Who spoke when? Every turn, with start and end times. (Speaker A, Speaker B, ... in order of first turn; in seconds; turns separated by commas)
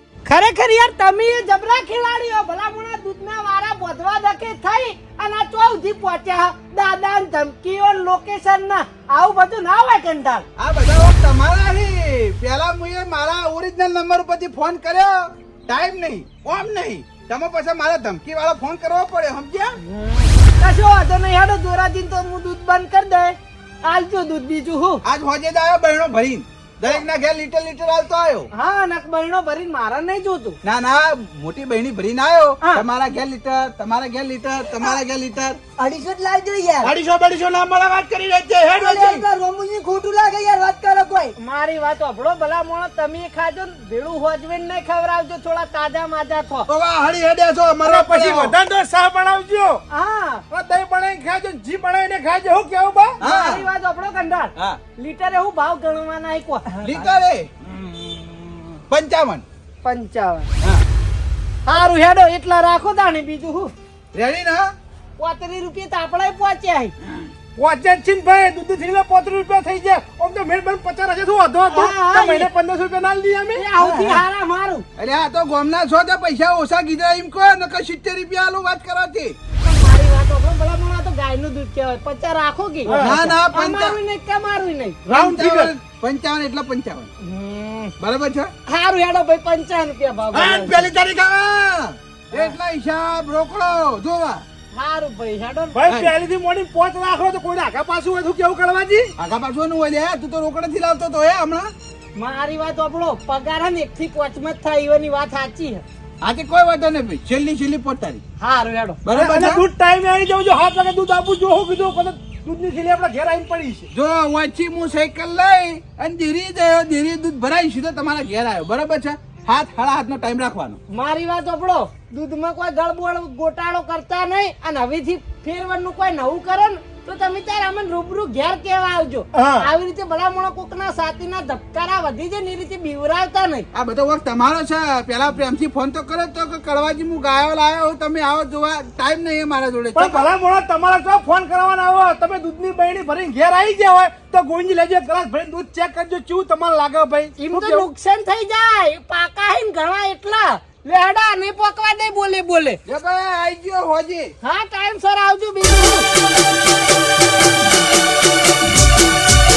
Speaker A: 0.2-10.4, Speaker B: 10.6-19.8, Speaker A: 19.9-25.0, Speaker B: 25.1-28.5, Speaker A: 28.5-30.6, Speaker B: 30.6-35.6, Speaker C: 35.8-36.9, Speaker B: 36.8-39.2, Speaker C: 38.7-41.4, Speaker A: 41.4-46.7, Speaker B: 46.7-48.5, Speaker D: 47.9-49.8, Speaker A: 49.9-50.5, Speaker D: 50.5-53.2, Speaker B: 53.2-53.6, Speaker A: 53.2-56.7, Speaker B: 56.8-59.4, Speaker A: 59.8-60.5, Speaker A: 61.7-63.7, Speaker B: 64.2-64.7, Speaker A: 65.2-66.9, Speaker D: 67.6-73.7, Speaker A: 71.7-72.5, Speaker A: 73.5-74.8, Speaker C: 73.8-74.2, Speaker B: 75.0-79.3, Speaker A: 79.6-85.0, Speaker D: 82.8-83.3, Speaker B: 83.0-84.0, Speaker D: 85.1-85.7, Speaker B: 85.1-87.1, Speaker A: 87.2-87.9, Speaker B: 88.0-88.5, Speaker A: 88.7-90.9, Speaker B: 90.3-94.4, Speaker A: 94.7-95.8, Speaker D: 95.8-99.1, Speaker B: 99.2-101.7, Speaker A: 102.2-105.8, Speaker B: 106.2-108.2, Speaker A: 108.4-109.0, Speaker B: 109.0-109.6, Speaker D: 109.1-113.9, Speaker B: 113.9-120.8, Speaker A: 120.9-133.7, Speaker D: 129.3-129.7, Speaker B: 133.7-140.3, Speaker D: 139.9-147.9, Speaker A: 147.4-152.8, Speaker B: 152.9-154.3, Speaker A: 154.4-156.1